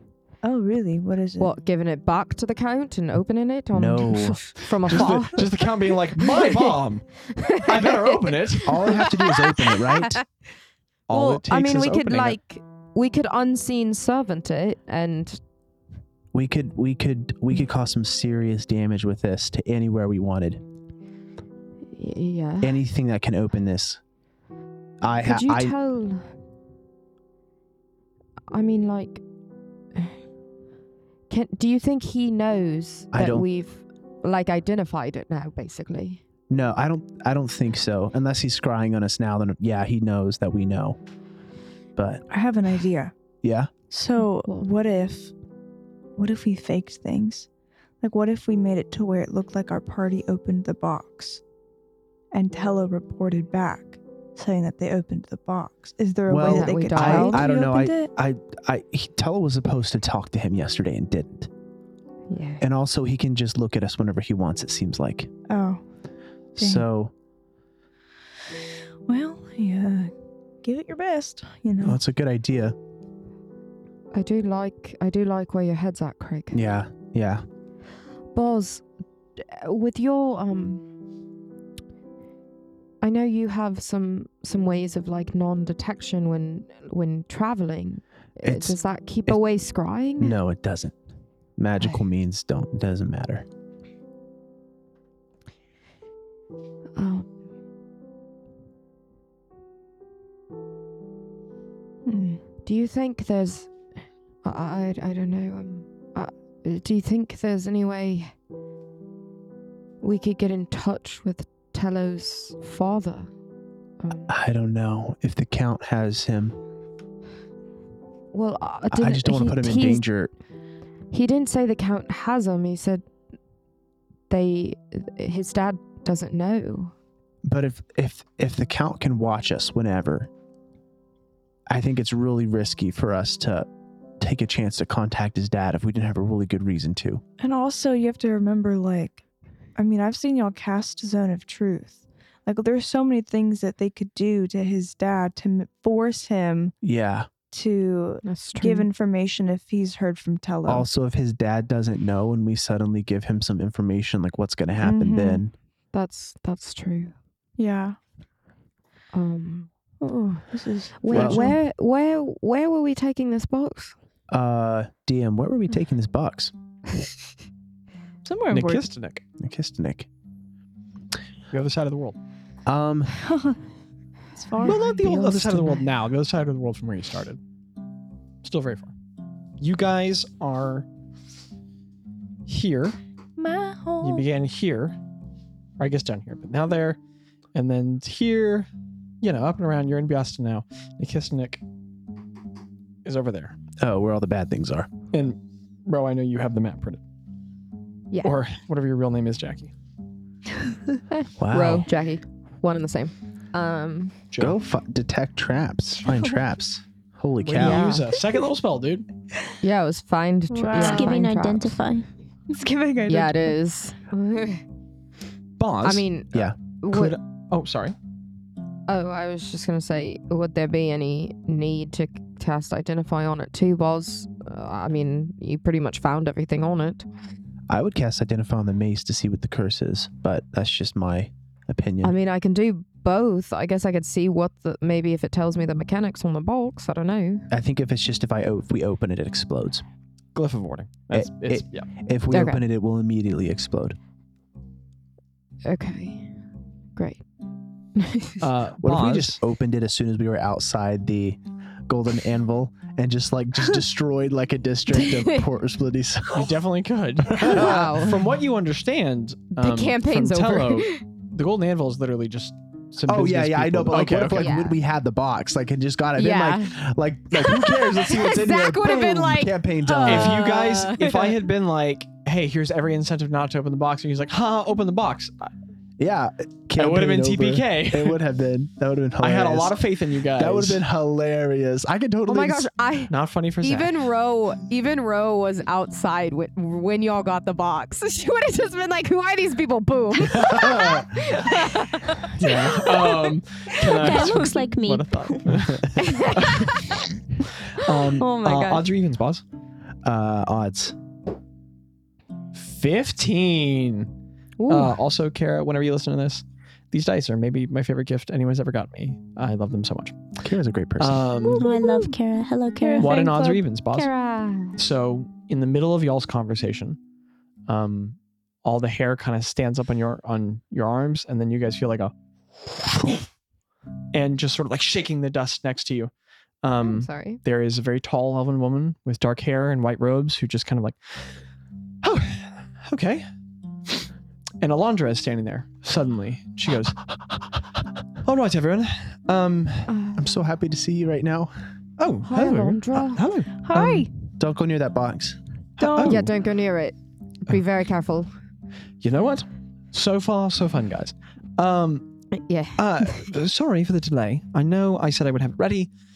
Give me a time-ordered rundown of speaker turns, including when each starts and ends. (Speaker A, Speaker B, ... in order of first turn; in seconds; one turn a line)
Speaker A: 0.4-1.6
Speaker B: 1.4-5.5
Speaker C: 3.7-5.2
Speaker D: 4.9-8.9
Speaker B: 6.2-8.3
Speaker C: 8.7-10.2
Speaker B: 8.8-10.2
Speaker D: 11.1-12.4
Speaker B: 11.1-15.4
Speaker C: 16.3-20.6
Speaker B: 21.9-22.8
Speaker C: 22.6-24.0
Speaker C: 25.0-25.7
Speaker B: 25.2-26.4
Speaker B: 28.5-29.2
Speaker B: 31.3-36.2
Speaker C: 33.1-33.5
Speaker C: 36.5-41.0
Speaker C: 42.0-42.2
Speaker A: 42.3-43.1
Speaker C: 43.4-43.7
Speaker A: 43.9-45.3
Speaker A: 46.2-47.5
Speaker A: 48.0-51.4
Speaker A: 52.3-58.1
Speaker C: 56.3-61.5
Speaker B: 56.4-57.5
Speaker B: 62.3-62.6
Speaker C: 62.6-65.3
Speaker A: 65.5-65.8
Speaker C: 66.6-67.1
Speaker A: 66.6-66.9
Speaker A: 69.1-72.0
Speaker C: 71.8-72.8
Speaker B: 74.1-76.6
Speaker C: 76.5-77.4
Speaker B: 78.3-78.8
Speaker B: 79.4-80.8
Speaker B: 83.0-90.4
Speaker C: 88.4-89.4
Speaker C: 90.2-91.0
Speaker C: 91.6-93.5
Speaker B: 97.0-97.3
Speaker A: 102.1-102.4
Speaker B: 102.7-103.7
Speaker B: 104.4-108.3
Speaker B: 110.0-113.3
Speaker B: 114.0-114.3
Speaker C: 114.3-116.6
Speaker B: 118.3-120.1
Speaker C: 118.9-120.3
Speaker B: 121.1-123.0
Speaker B: 124.3-126.9
Speaker C: 127.5-130.3
Speaker C: 131.7-133.7
Speaker C: 134.2-137.2
Speaker A: 137.4-139.2
Speaker A: 139.8-146.7
Speaker C: 146.8-147.3
Speaker A: 147.5-150.9
Speaker B: 148.2-148.9
Speaker C: 150.7-155.5
Speaker A: 154.8-155.4
Speaker B: 155.9-157.2
Speaker A: 157.6-158.0
Speaker B: 159.1-160.4
Speaker A: 160.5-161.6
Speaker B: 161.0-163.9
Speaker C: 161.1-161.5
Speaker C: 164.3-166.5
Speaker A: 168.2-168.9
Speaker D: 168.5-169.2
Speaker C: 169.4-170.1
Speaker D: 171.5-172.2
Speaker C: 172.7-173.2
Speaker A: 173.2-173.6
Speaker A: 174.3-175.6
Speaker D: 174.6-177.4
Speaker B: 174.7-175.8
Speaker D: 178.4-178.9
Speaker D: 179.6-180.9
Speaker D: 182.5-183.0
Speaker A: 183.4-184.2
Speaker D: 184.0-185.0
Speaker D: 185.8-187.0
Speaker D: 187.5-188.7
Speaker D: 189.2-191.6
Speaker D: 193.1-193.6
Speaker C: 193.8-194.9
Speaker D: 195.1-197.0
Speaker B: 198.1-198.4
Speaker D: 198.2-199.7
Speaker B: 201.2-204.2
Speaker C: 201.4-201.9
Speaker D: 204.3-204.6
Speaker C: 204.4-208.0
Speaker D: 207.4-209.1
Speaker B: 207.6-208.1
Speaker B: 209.6-211.8
Speaker A: 210.5-211.2
Speaker E: 210.7-212.1
Speaker A: 212.5-213.5
Speaker B: 213.1-214.6
Speaker D: 215.6-216.1
Speaker B: 215.8-217.2
Speaker D: 216.9-218.0
Speaker B: 218.9-227.1
Speaker C: 227.7-232.1
Speaker B: 232.0-237.5
Speaker C: 237.5-239.8
Speaker D: 240.3-241.9
Speaker C: 241.1-244.0
Speaker B: 242.3-242.6
Speaker B: 245.7-246.3
Speaker B: 247.0-247.2
Speaker B: 248.0-248.4
Speaker D: 248.4-249.4
Speaker C: 248.8-256.6
Speaker B: 254.9-255.4
Speaker D: 256.3-264.5
Speaker C: 257.3-258.0
Speaker B: 257.4-258.3
Speaker B: 259.6-261.0
Speaker C: 263.1-270.4
Speaker B: 264.3-264.8
Speaker B: 266.2-266.8
Speaker B: 267.3-271.4
Speaker D: 270.1-275.5
Speaker C: 276.0-282.7
Speaker D: 276.8-278.2
Speaker D: 279.2-280.8
Speaker B: 282.3-294.5
Speaker D: 283.1-284.0
Speaker C: 290.2-291.4
Speaker D: 292.2-297.0
Speaker E: 293.9-295.4
Speaker C: 295.5-296.1
Speaker B: 295.9-297.2
Speaker D: 297.7-299.4
Speaker B: 297.8-298.9
Speaker C: 300.0-301.0
Speaker D: 302.5-304.1
Speaker B: 304.6-305.0
Speaker D: 304.7-310.2
Speaker C: 310.4-311.3
Speaker D: 311.0-311.7
Speaker A: 311.5-312.1
Speaker E: 311.6-313.4
Speaker A: 312.8-313.6
Speaker D: 313.0-314.1
Speaker B: 313.9-314.8
Speaker D: 314.8-317.0
Speaker D: 317.7-323.2
Speaker D: 324.1-326.1
Speaker D: 326.6-331.2
Speaker B: 326.8-327.4
Speaker D: 332.0-333.3
Speaker D: 334.6-337.1
Speaker D: 338.2-339.9
Speaker B: 339.9-340.2
Speaker C: 340.1-341.5
Speaker D: 342.0-343.9
Speaker B: 342.2-343.2
Speaker A: 343.6-344.1
Speaker C: 343.8-345.4
Speaker D: 345.8-346.3
Speaker A: 345.8-346.2
Speaker B: 346.0-348.3
Speaker D: 349.0-352.1
Speaker B: 352.4-353.3
Speaker D: 352.8-355.9